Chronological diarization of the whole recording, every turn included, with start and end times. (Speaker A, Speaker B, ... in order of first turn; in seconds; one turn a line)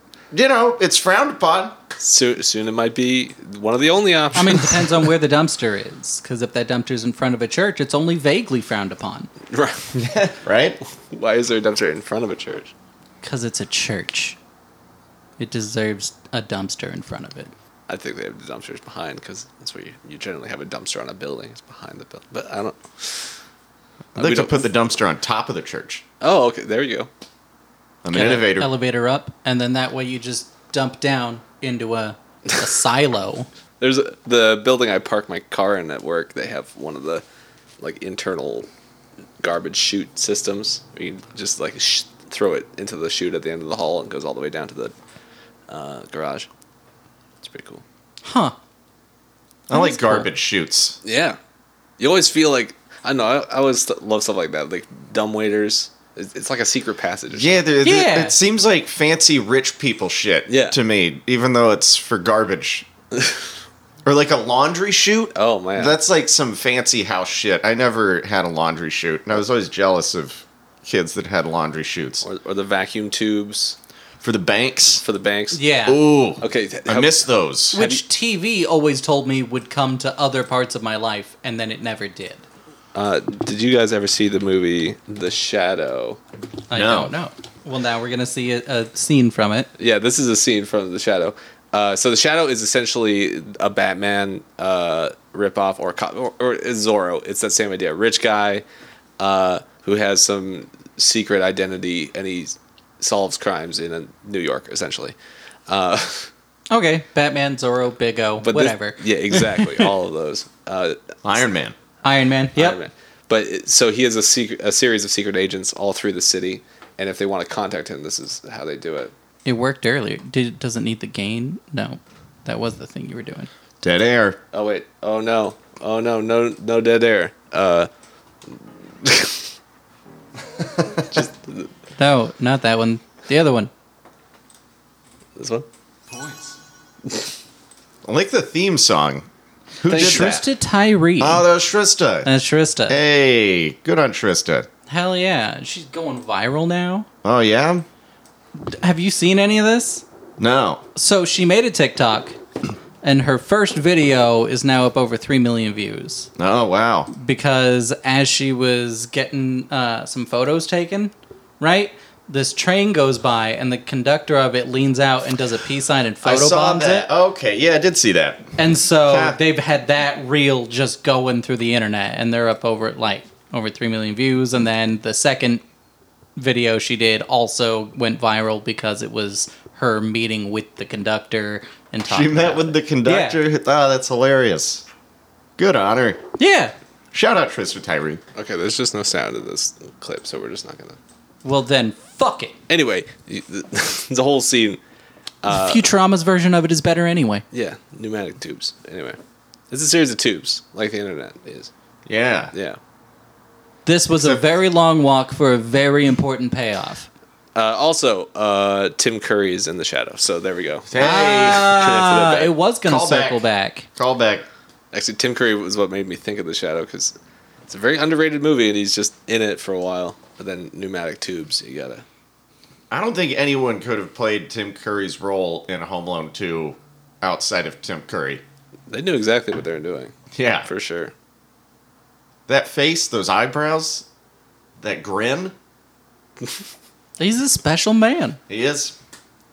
Speaker A: 0.3-1.8
Speaker B: 2.0-5.1
Speaker C: 4.3-9.3
Speaker B: 9.5-10.0
Speaker A: 9.9-10.8
Speaker B: 11.1-12.7
Speaker C: 13.2-14.4
Speaker C: 15.4-17.5
Speaker B: 17.9-23.3
Speaker A: 24.1-26.0
Speaker B: 24.2-24.7
Speaker B: 26.2-27.1
Speaker A: 28.0-28.7
Speaker C: 28.1-33.5
Speaker B: 33.8-37.2
Speaker B: 37.8-38.7
Speaker B: 39.4-44.9
Speaker B: 45.7-46.5
Speaker B: 47.4-47.8
Speaker C: 48.2-48.5
Speaker C: 49.7-50.3
Speaker A: 49.7-51.0
Speaker B: 51.0-51.4
Speaker B: 52.0-57.6
Speaker A: 57.3-62.9
Speaker C: 57.8-58.4
Speaker B: 60.5-60.8
Speaker A: 64.0-72.2
Speaker B: 65.3-66.0
Speaker B: 72.2-73.8
Speaker A: 74.2-75.0
Speaker B: 75.0-75.6
Speaker C: 75.5-76.0
Speaker A: 75.8-77.8
Speaker B: 76.4-78.0
Speaker C: 77.7-82.4
Speaker B: 82.9-86.2
Speaker C: 86.7-89.7
Speaker A: 86.7-87.1
Speaker B: 89.8-98.6
Speaker B: 99.2-105.1
Speaker B: 105.7-106.3
Speaker C: 106.7-109.4
Speaker B: 108.4-111.2
Speaker A: 111.2-111.8
Speaker C: 112.0-112.8
Speaker B: 112.5-119.1
Speaker C: 119.4-123.5
Speaker A: 123.8-124.4
Speaker B: 124.5-127.9
Speaker B: 128.5-129.4
Speaker B: 130.9-131.7
Speaker C: 132.0-133.7
Speaker B: 135.4-135.7
Speaker A: 138.0-139.2
Speaker A: 139.8-140.4
Speaker B: 139.9-140.3
Speaker C: 139.9-141.5
Speaker A: 141.2-142.3
Speaker C: 142.2-143.0
Speaker A: 142.9-144.7
Speaker C: 144.9-147.1
Speaker A: 147.2-147.8
Speaker C: 148.6-150.0
Speaker A: 150.4-150.8
Speaker C: 150.9-152.4
Speaker C: 153.0-156.3
Speaker A: 156.4-157.1
Speaker C: 157.1-167.1
Speaker A: 166.2-169.4
Speaker C: 168.6-175.6
Speaker C: 176.3-183.4
Speaker A: 182.1-184.8
Speaker A: 185.6-186.2
Speaker C: 186.4-186.7
Speaker A: 187.1-188.2
Speaker B: 188.3-191.0
Speaker C: 191.4-192.5
Speaker B: 192.7-194.8
Speaker B: 195.4-195.8
Speaker C: 195.5-197.4
Speaker B: 197.5-199.2
Speaker B: 199.7-201.7
Speaker A: 202.1-202.5
Speaker B: 202.5-202.8
Speaker C: 203.8-207.1
Speaker A: 204.1-204.4
Speaker B: 207.5-212.5
Speaker A: 210.9-211.8
Speaker C: 211.0-213.9
Speaker A: 212.8-213.4
Speaker A: 213.9-214.4
Speaker B: 214.9-217.1
Speaker B: 217.7-222.0
Speaker A: 222.9-228.4
Speaker B: 228.9-230.1
Speaker A: 230.3-230.7
Speaker B: 230.6-231.1
Speaker A: 232.5-234.1
Speaker A: 234.8-235.5
Speaker C: 237.2-238.4
Speaker A: 238.5-238.9